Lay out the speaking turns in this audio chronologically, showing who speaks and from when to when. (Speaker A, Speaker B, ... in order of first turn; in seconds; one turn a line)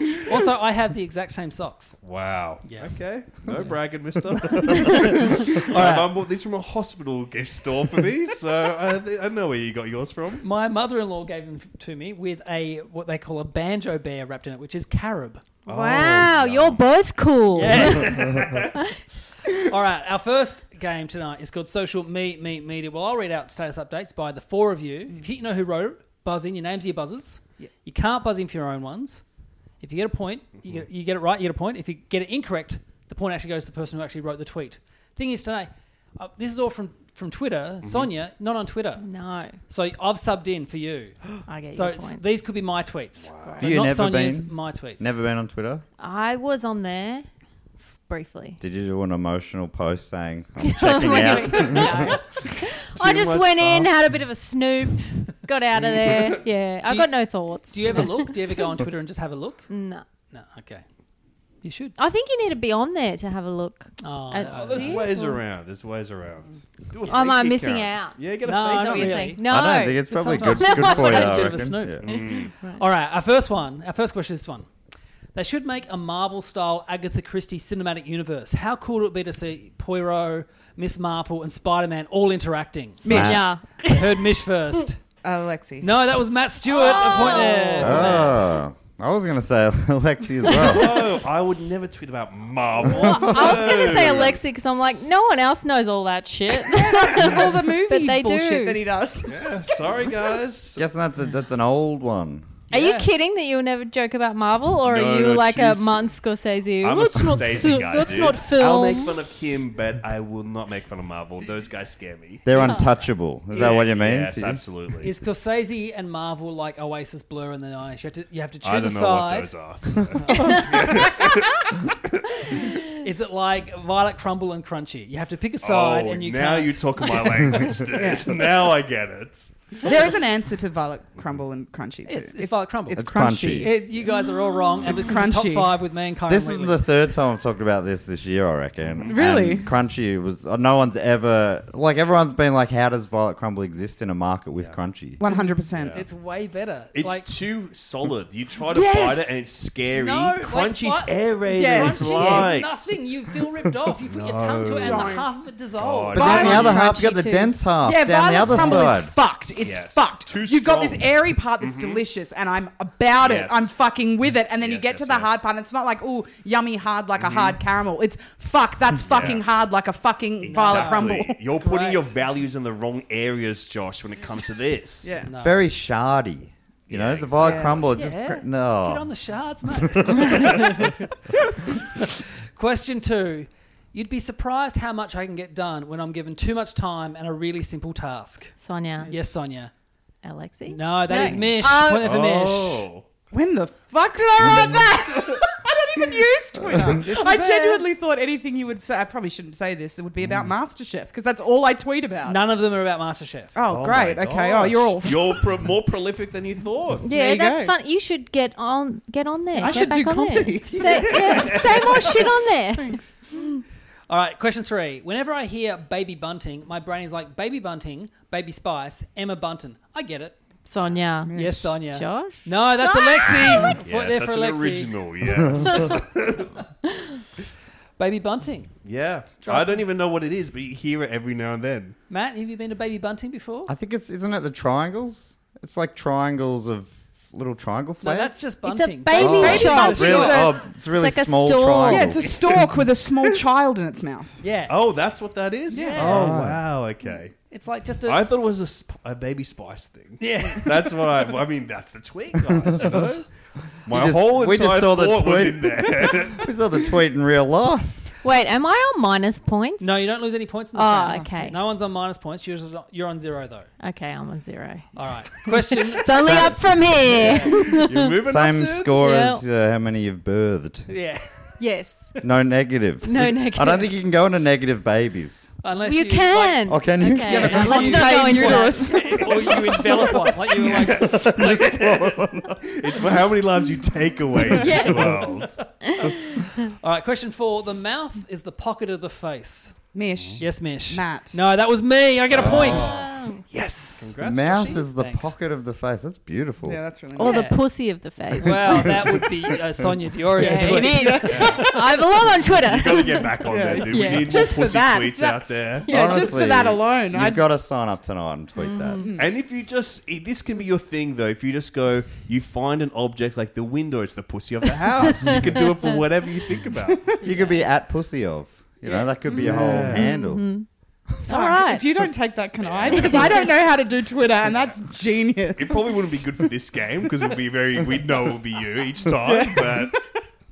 Speaker A: 0.2-1.9
Speaker B: 2.0-10.4
Speaker A: 2.6-3.8
Speaker A: 4.4-6.1
Speaker A: 10.4-15.4
Speaker B: 15.7-16.8
Speaker C: 15.7-18.3
Speaker A: 17.6-18.4
Speaker B: 17.7-18.8
Speaker A: 19.6-29.2
Speaker A: 29.8-39.0
Speaker B: 37.8-38.1
Speaker C: 39.0-39.5
Speaker A: 39.7-41.2
Speaker C: 41.5-42.2
Speaker A: 41.7-45.1
Speaker B: 43.2-43.7
Speaker D: 43.6-45.8
Speaker C: 46.0-47.2
Speaker C: 48.0-48.6
Speaker D: 48.6-52.2
Speaker C: 50.6-58.4
Speaker A: 51.5-51.9
Speaker B: 52.8-53.9
Speaker B: 55.7-56.4
Speaker A: 56.8-57.1
Speaker A: 57.7-59.7
Speaker C: 59.7-60.0
Speaker A: 60.3-60.8
Speaker A: 61.6-62.0
Speaker C: 62.0-65.4
Speaker A: 64.0-65.1
Speaker B: 64.4-69.4
Speaker C: 67.1-72.8
Speaker A: 68.4-74.7
Speaker D: 69.5-72.0
Speaker B: 72.0-72.5
Speaker A: 75.3-85.0
Speaker E: 83.0-83.5
Speaker D: 83.0-83.5
Speaker C: 83.1-83.6
Speaker E: 85.2-86.0
Speaker A: 85.8-88.4
Speaker C: 86.7-88.3
Speaker B: 87.0-88.5
Speaker D: 87.8-91.0
Speaker B: 90.5-94.4
Speaker C: 92.9-98.8
Speaker E: 96.6-100.4
Speaker B: 99.3-100.8
Speaker D: 100.8-102.5
Speaker C: 102.7-109.1
Speaker A: 102.7-103.1
Speaker B: 104.8-106.1
Speaker B: 106.8-112.5
Speaker D: 112.4-114.6
Speaker C: 112.5-112.9
Speaker B: 113.5-115.1
Speaker A: 113.5-113.8
Speaker A: 115.0-119.5
Speaker B: 118.6-122.2
Speaker A: 120.1-121.2
Speaker C: 120.3-121.0
Speaker A: 123.0-128.2
Speaker B: 125.6-129.9
Speaker E: 129.8-133.8
Speaker A: 132.1-136.8
Speaker D: 132.9-133.7
Speaker E: 134.8-135.8
Speaker D: 136.3-145.2
Speaker B: 138.8-139.2
Speaker E: 139.1-139.7
Speaker E: 145.2-146.0
Speaker A: 145.3-147.3
Speaker B: 145.7-146.0
Speaker B: 146.9-153.0
Speaker E: 148.7-149.4
Speaker A: 149.9-156.6
Speaker E: 151.5-152.5
Speaker B: 154.0-155.2
Speaker E: 154.8-155.3
Speaker B: 155.8-156.8
Speaker E: 156.1-171.4
Speaker D: 156.1-159.1
Speaker C: 156.9-157.3
Speaker B: 158.4-158.9
Speaker B: 159.6-162.0
Speaker B: 163.2-163.7
Speaker B: 164.6-165.4
Speaker B: 167.2-167.6
Speaker B: 169.0-169.4
Speaker A: 170.4-172.1
Speaker B: 170.4-175.2
Speaker E: 175.0-175.3
Speaker A: 175.2-175.6
Speaker D: 175.3-179.1
Speaker B: 176.9-177.9
Speaker E: 177.4-177.8
Speaker A: 177.9-181.0
Speaker A: 181.8-188.5
Speaker C: 188.6-189.1
Speaker A: 189.1-189.7
Speaker C: 190.2-192.1
Speaker A: 190.7-192.9
Speaker B: 191.1-193.0
Speaker E: 193.3-202.4
Speaker A: 196.9-197.8
Speaker A: 202.2-203.6
Speaker E: 203.5-205.6
Speaker B: 203.7-207.0
Speaker C: 207.0-213.6
Speaker E: 207.1-207.7
Speaker E: 209.5-213.2
Speaker A: 209.6-209.9
Speaker B: 210.8-212.0
Speaker A: 214.1-220.4
Speaker C: 220.6-223.8
Speaker E: 221.2-221.8
Speaker A: 221.3-224.9
Speaker B: 223.8-226.6
Speaker A: 228.0-228.7
Speaker B: 228.8-231.9
Speaker A: 229.4-229.8
Speaker A: 232.1-233.7
Speaker D: 233.7-238.4
Speaker A: 238.0-240.4
Speaker C: 238.6-242.3
Speaker D: 239.1-242.3
Speaker E: 239.3-240.6
Speaker E: 241.8-244.4
Speaker A: 244.4-244.8
Speaker B: 244.7-247.4
Speaker E: 245.7-246.2
Speaker C: 245.7-246.1
Speaker D: 246.0-246.7
Speaker A: 247.5-248.2
Speaker B: 248.0-253.2
Speaker A: 250.2-251.3
Speaker D: 252.7-253.1
Speaker B: 253.8-256.5
Speaker D: 253.8-258.1
Speaker C: 258.2-260.0
Speaker A: 259.8-263.7
Speaker C: 260.7-261.6
Speaker E: 261.1-261.5
Speaker C: 263.8-268.1
Speaker A: 264.9-266.5
Speaker D: 266.2-270.9
Speaker A: 267.2-267.6
Speaker B: 267.5-269.0
Speaker C: 268.9-269.4
Speaker A: 270.9-271.3
Speaker C: 271.6-272.2
Speaker D: 272.2-275.5
Speaker C: 273.0-273.9
Speaker A: 275.6-282.0
Speaker C: 275.7-279.3
Speaker D: 276.7-277.6
Speaker E: 277.2-280.3
Speaker B: 280.6-285.6
Speaker D: 281.0-282.6
Speaker C: 284.5-286.5
Speaker A: 286.6-289.8
Speaker E: 289.9-291.4
Speaker A: 290.4-293.0
Speaker B: 292.3-293.1
Speaker D: 292.3-292.9
Speaker C: 292.6-293.4
Speaker A: 293.5-295.3
Speaker B: 294.0-294.8
Speaker D: 294.2-296.8
Speaker E: 296.6-297.6
Speaker C: 297.1-298.9
Speaker A: 297.2-297.6
Speaker A: 298.4-301.7
Speaker D: 298.6-299.4
Speaker C: 300.3-304.5
Speaker E: 300.4-302.0
Speaker B: 301.2-301.6
Speaker B: 302.5-305.9
Speaker E: 303.4-307.4
Speaker C: 305.9-306.3
Speaker D: 305.9-309.1
Speaker C: 308.6-309.1
Speaker E: 309.0-309.3
Speaker B: 309.1-317.0
Speaker C: 315.1-315.8
Speaker E: 316.6-317.3
Speaker D: 317.2-320.5
Speaker A: 318.8-319.1
Speaker B: 319.4-320.1
Speaker C: 319.9-320.6
Speaker C: 321.2-321.9
Speaker E: 321.3-326.2
Speaker B: 322.6-323.4
Speaker C: 322.9-323.5
Speaker B: 325.6-330.0
Speaker E: 329.2-330.0